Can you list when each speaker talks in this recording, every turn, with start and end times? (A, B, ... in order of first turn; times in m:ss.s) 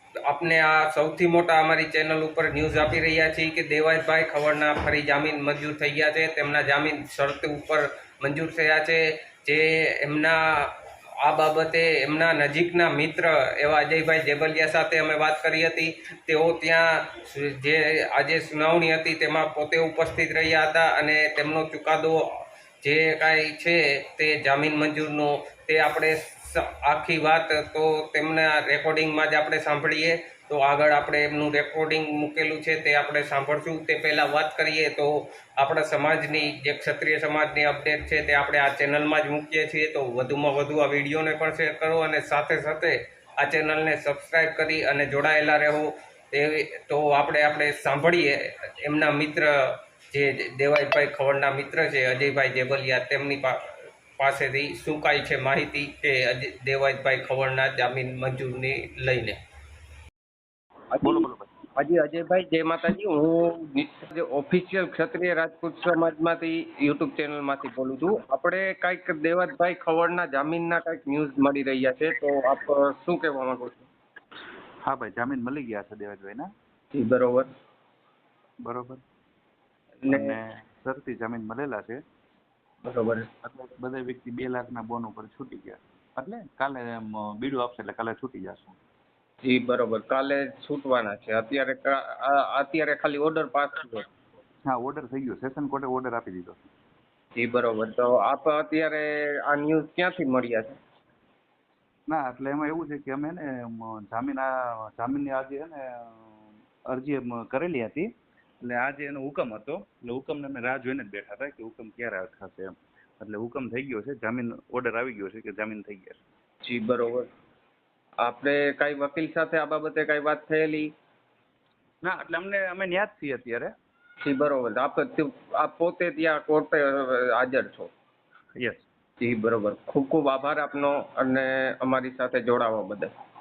0:00.3-0:53.6 A
0:54.2-0:59.4 A
1:00.9-1:13.9 A
1:01.0-1:01.5 B
1:14.8-1:16.5 B
1:16.9-1:17.5 A
1:18.6-1:19.0 B
1:20.0-1:20.4 A
1:20.1-1:22.0 B
1:22.8-1:23.3 A
1:23.5-1:28.8 B
1:29.4-1:34.1 A
1:34.7-1:36.7 B
1:37.4-1:40.8 A
1:42.1-1:48.1 B
1:48.6-1:56.2 B
1:56.6-1:57.3 A
1:58.2-2:00.9 A
2:02.0-2:03.7 B
2:04.2-2:07.9 A
2:08.6-2:08.8 B
2:09.2-2:13.1 A